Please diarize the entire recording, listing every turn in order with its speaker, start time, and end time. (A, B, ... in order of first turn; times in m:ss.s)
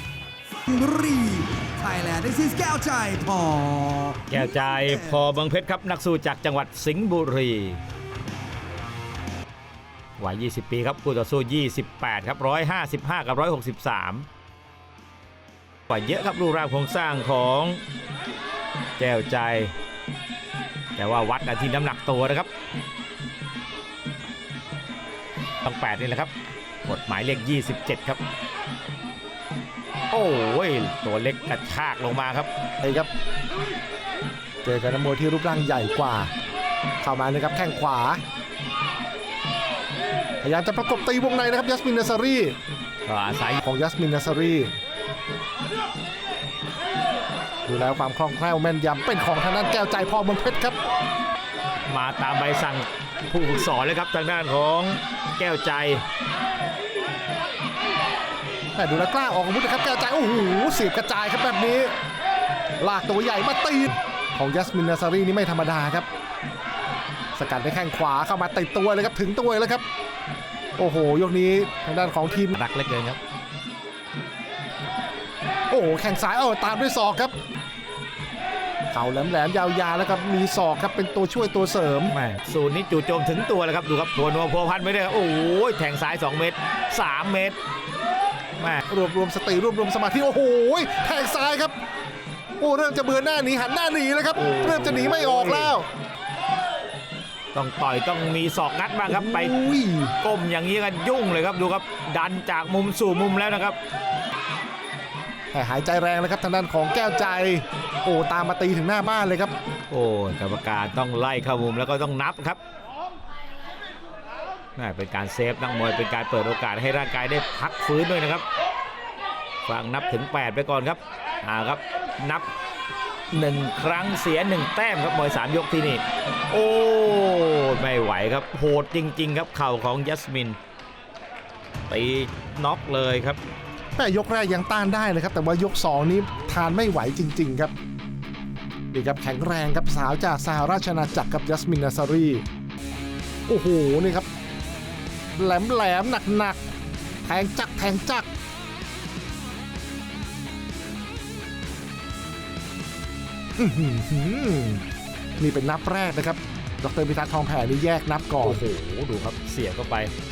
0:00.7-0:05.3 A
0:04.3-0:07.8 B
0:10.2-0:14.2 B
0:15.9-0:17.8 B
0:19.0-0:19.7 B
0:21.0-0:22.5 B
0:25.6-0:26.3 B
0:26.8-0:28.2 B
0:30.1-0:32.5 B
0:32.8-0:33.1 C
0:34.6-0:36.3 C
0:37.0-0:38.2 C
0:40.4-0:42.6 C
0:43.0-0:43.6 B
0:43.6-0:44.7 C
0:47.7-0:50.8 C
0:51.8-0:56.0 B
0:58.7-1:01.9 C
1:02.8-1:06.1 C
1:07.3-1:09.8 C
1:10.8-1:12.6 C
1:12.5-1:13.2 B
1:15.7-1:17.3 C
1:18.9-1:22.1 C
1:22.1-1:27.6 B
1:28.6-1:28.8 B
1:28.9-1:31.8 C
1:32.6-1:35.9 C
1:34.3-1:35.8 B
1:37.5-1:39.6 B
1:39.1-1:40.2 C
1:40.2-1:43.8 B
1:45.5-1:49.5 C
1:49.9-1:52.6 B
1:54.8-1:58.4 B
1:59.6-2:02.5 B
2:03.3-2:10.6 B
2:11.9-2:13.4 B
2:14.0-2:17.7 C
2:18.9-2:22.4 C
2:23.5-2:24.3 C
2:25.4-2:26.6 C
2:27.2-2:28.3 C
2:33.6-2:34.8 C
2:35.4-2:38.6 C
2:38.4-2:40.1 B